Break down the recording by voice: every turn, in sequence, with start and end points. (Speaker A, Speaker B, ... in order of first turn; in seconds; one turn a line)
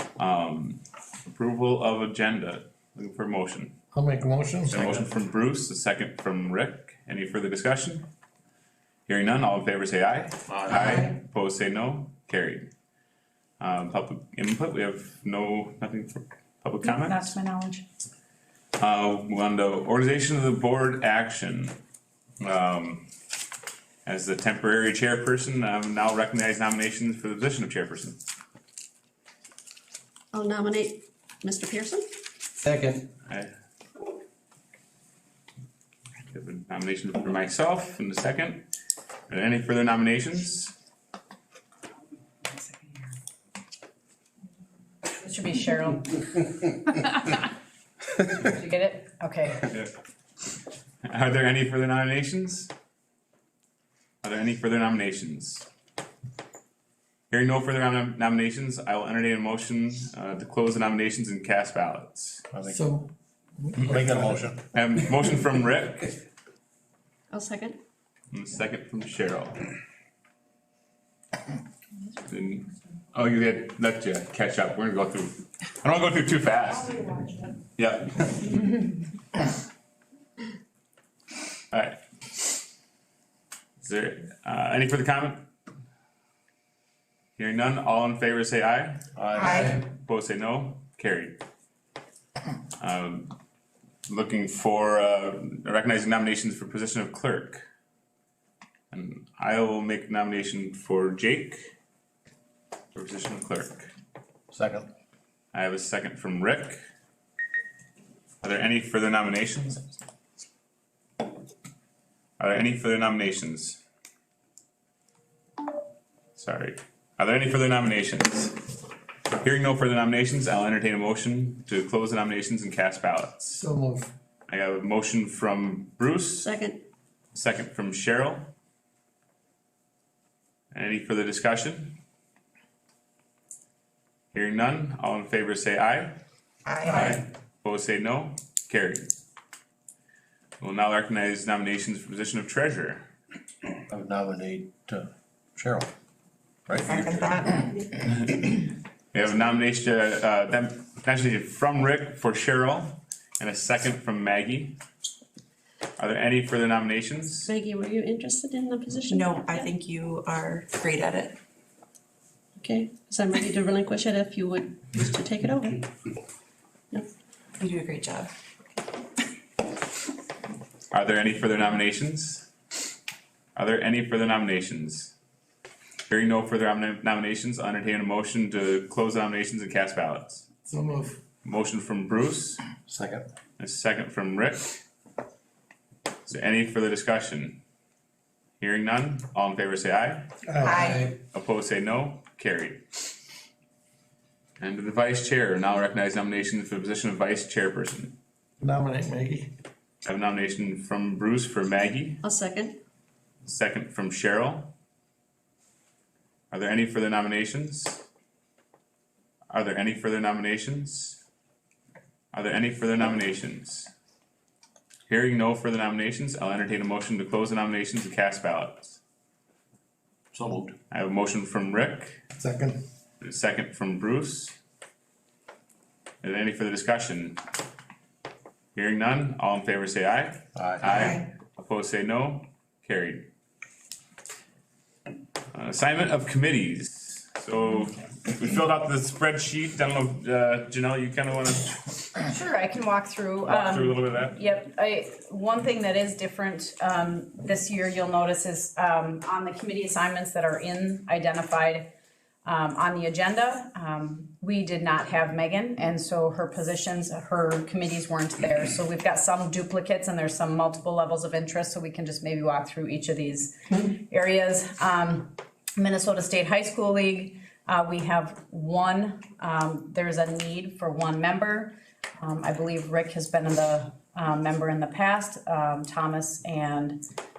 Speaker A: 0.2-3.7
Speaker B: 3.9-4.8
Speaker A: 4.7-8.1
Speaker A: 9.1-12.7
Speaker C: 10.5-10.9
Speaker A: 13.6-17.4
Speaker D: 16.8-17.8
Speaker A: 18.8-21.8
Speaker A: 22.4-23.1
Speaker A: 24.0-28.2
Speaker E: 30.3-32.0
Speaker C: 32.6-33.1
Speaker A: 36.3-38.7
Speaker A: 39.3-40.7
Speaker D: 42.5-43.1
Speaker D: 45.1-47.4
Speaker D: 48.2-49.7
Speaker A: 51.0-52.7
Speaker A: 54.2-55.6
Speaker A: 57.3-62.4
Speaker C: 62.5-62.8
Speaker B: 62.7-64.4
Speaker C: 63.8-64.7
Speaker A: 64.7-66.2
Speaker E: 67.3-67.8
Speaker A: 68.3-69.6
Speaker A: 72.2-78.5
Speaker A: 81.7-82.0
Speaker A: 83.8-85.5
Speaker A: 87.4-89.0
Speaker C: 89.1-89.7
Speaker F: 89.4-89.7
Speaker A: 89.6-91.4
Speaker A: 92.8-93.3
Speaker A: 94.0-97.6
Speaker A: 98.9-101.6
Speaker A: 102.9-103.9
Speaker C: 104.5-104.9
Speaker A: 105.5-106.8
Speaker A: 108.4-109.9
Speaker A: 112.4-113.8
Speaker A: 116.3-118.6
Speaker A: 119.3-123.6
Speaker B: 123.5-124.1
Speaker A: 124.5-126.5
Speaker E: 126.4-126.8
Speaker A: 127.3-128.5
Speaker A: 130.7-132.0
Speaker A: 134.3-136.2
Speaker F: 136.7-137.1
Speaker A: 136.8-139.1
Speaker A: 140.6-143.1
Speaker C: 143.9-145.9
Speaker C: 146.7-147.7
Speaker F: 146.8-147.6
Speaker A: 149.1-154.8
Speaker A: 156.0-157.5
Speaker E: 157.4-159.7
Speaker F: 159.1-161.4
Speaker E: 162.6-165.9
Speaker F: 167.6-168.3
Speaker A: 170.9-172.5
Speaker A: 173.5-175.1
Speaker A: 176.1-180.5
Speaker B: 180.7-181.2
Speaker A: 181.4-182.6
Speaker C: 182.9-183.2
Speaker A: 183.6-184.8
Speaker A: 186.2-187.6
Speaker A: 188.6-190.3
Speaker B: 190.5-191.1
Speaker F: 190.6-191.0
Speaker A: 191.3-192.8
Speaker A: 194.6-198.1
Speaker B: 198.6-199.5
Speaker A: 200.0-202.2
Speaker E: 202.2-202.8
Speaker A: 203.4-204.7
Speaker A: 206.5-208.0
Speaker A: 209.5-211.2
Speaker A: 212.3-213.9
Speaker A: 215.1-219.0
Speaker C: 220.3-220.7
Speaker A: 220.9-222.2
Speaker B: 222.4-222.8
Speaker A: 223.2-224.6
Speaker A: 226.2-227.4
Speaker A: 228.7-233.3
Speaker C: 230.6-231.0
Speaker A: 235.5-241.9
Speaker D: 242.2-251.9
Speaker A: 243.4-244.4
Speaker D: 252.4-277.0